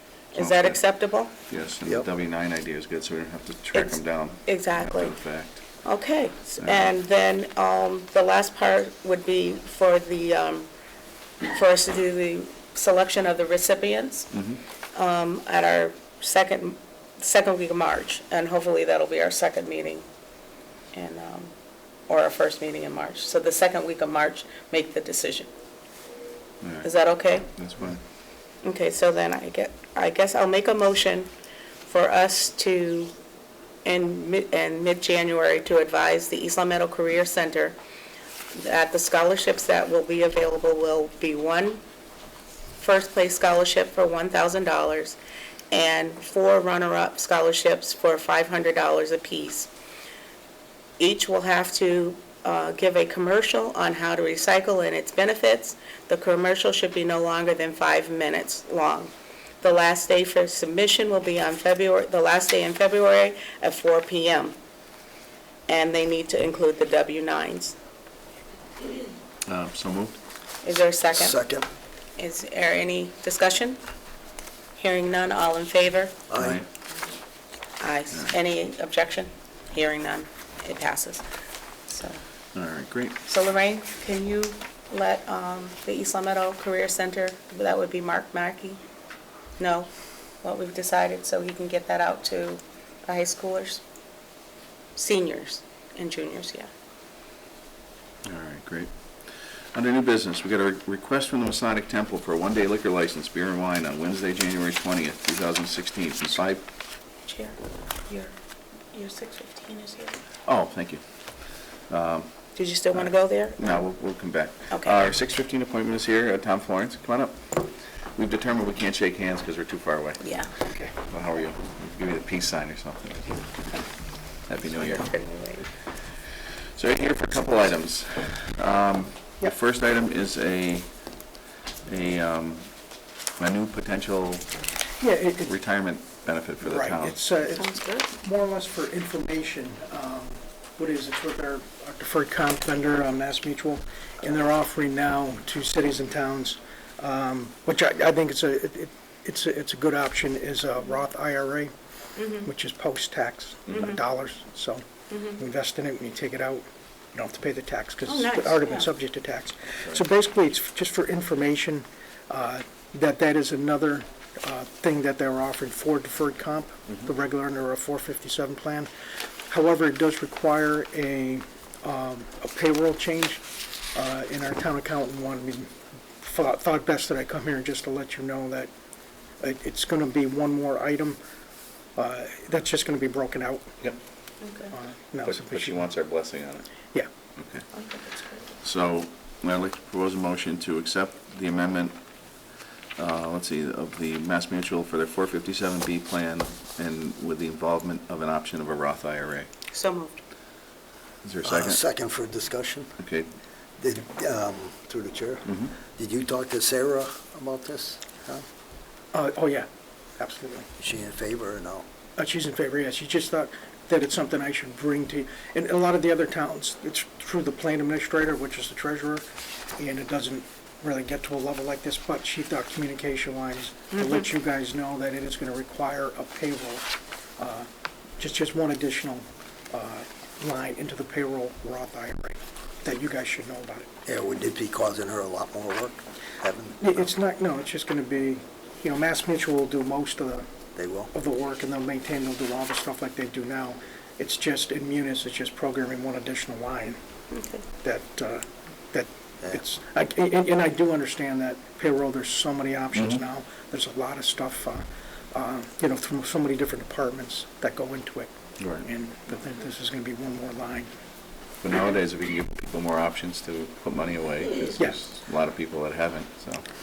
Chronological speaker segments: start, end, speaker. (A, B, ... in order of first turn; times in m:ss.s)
0:00.3-0:00.8 A
0:00.3-0:01.3 B
0:01.5-0:05.6 A
0:03.7-0:05.1 B
0:05.8-0:10.7 B
0:06.6-0:06.9 A
0:11.5-0:14.3 B
0:14.3-0:14.6 A
0:15.0-0:20.0 B
0:20.9-0:21.5 B
0:22.1-0:25.5 B
0:26.6-0:26.9 A
0:26.8-0:27.5 B
0:27.5-0:28.0 A
0:28.6-0:31.3 B
0:31.9-0:33.1 B
0:33.8-0:37.8 B
0:38.6-0:41.8 B
0:42.8-0:45.2 B
0:45.7-0:49.7 B
0:51.0-1:04.6 B
1:05.7-1:07.8 B
1:09.4-1:10.2 A
1:10.6-1:11.4 B
1:11.1-1:11.7 C
1:12.2-1:13.8 B
1:14.8-1:16.2 B
1:16.3-1:16.6 C
1:16.4-1:16.7 A
1:17.8-1:21.2 B
1:21.9-1:22.2 B
1:22.6-1:23.2 A
1:23.2-1:28.8 B
1:29.6-1:29.9 B
1:30.4-1:33.8 B
1:35.0-1:36.7 B
1:38.2-1:38.9 A
1:39.7-1:46.6 A
1:47.2-1:48.3 B
1:48.9-1:50.2 B
1:50.4-1:51.0 A
1:51.9-1:52.3 A
1:52.6-1:53.8 B
1:52.9-1:57.6 A
1:54.7-1:55.0 B
1:58.2-2:00.2 A
2:00.2-2:00.5 B
2:01.0-2:03.4 A
2:04.5-2:05.1 A
2:04.7-2:05.7 B
2:06.7-2:10.9 A
2:11.9-2:12.7 A
2:13.4-2:14.5 A
2:15.0-2:15.5 D
2:15.4-2:17.2 A
2:16.6-2:31.7 D
2:17.4-2:18.1 B
2:32.2-2:32.5 B
2:32.4-2:34.8 D
2:35.1-2:35.4 B
2:35.4-2:48.9 D
2:38.0-2:38.9 B
2:49.5-2:53.4 D
2:53.9-2:58.7 D
2:59.4-3:01.2 D
3:02.0-3:03.7 D
3:04.4-3:04.8 B
3:04.7-3:05.8 D
3:05.2-3:06.6 A
3:07.4-3:07.7 A
3:07.7-3:08.5 B
3:08.6-3:12.0 A
3:13.0-3:19.5 A
3:19.7-3:20.2 B
3:21.2-3:21.8 A
3:21.4-3:23.0 C
3:23.0-3:23.3 A
3:23.8-3:28.4 C
3:25.4-3:25.7 A
3:29.1-3:30.7 D
3:30.8-3:31.9 C
3:32.2-3:39.2 D
3:39.8-3:46.8 D
3:43.9-3:44.2 B
3:47.4-3:53.9 D
3:54.0-3:57.1 C
3:56.8-4:00.5 D
4:00.7-4:01.1 C
4:01.1-4:07.0 D
4:07.3-4:07.6 B
4:07.8-4:20.9 D
4:12.9-4:13.2 A
4:18.6-4:18.8 A
4:21.6-4:26.6 A